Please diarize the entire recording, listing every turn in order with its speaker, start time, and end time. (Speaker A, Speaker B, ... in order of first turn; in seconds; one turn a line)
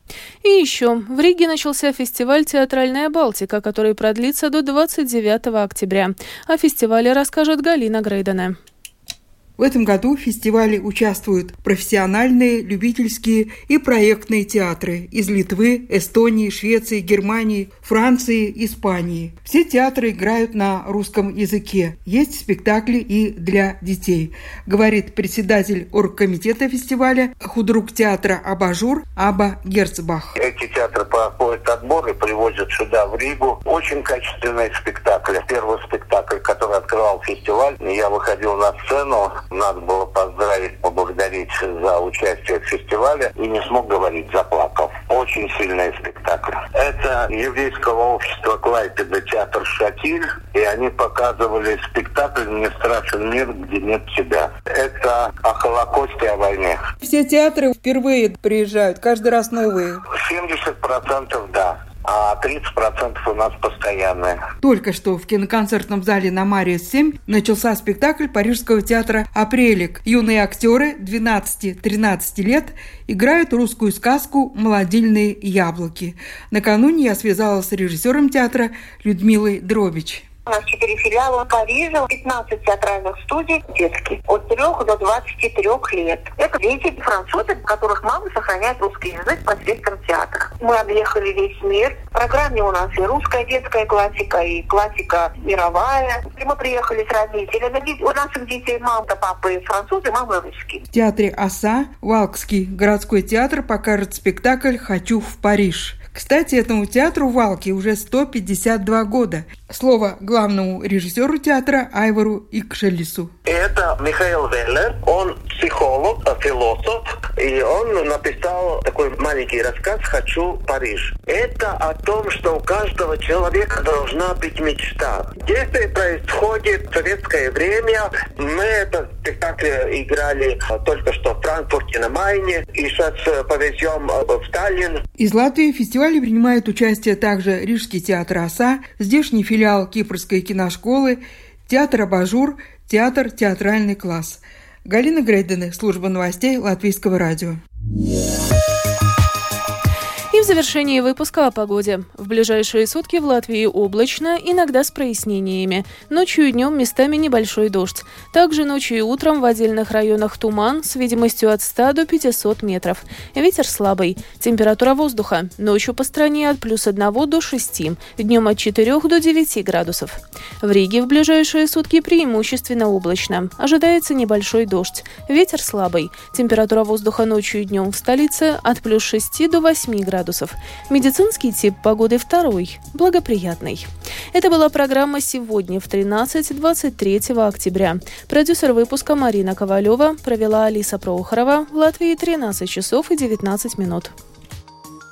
Speaker A: 0.4-8.6
Speaker B: 9.6-30.3
Speaker C: 30.4-56.8
Speaker B: 57.0-60.0
Speaker C: 60.1-64.4
Speaker B: 64.6-80.2
Speaker D: 80.5-100.8
Speaker B: 100.9-113.3
Speaker C: 113.5-135.0
Speaker B: 135.2-147.6
Speaker A: 150.3-194.1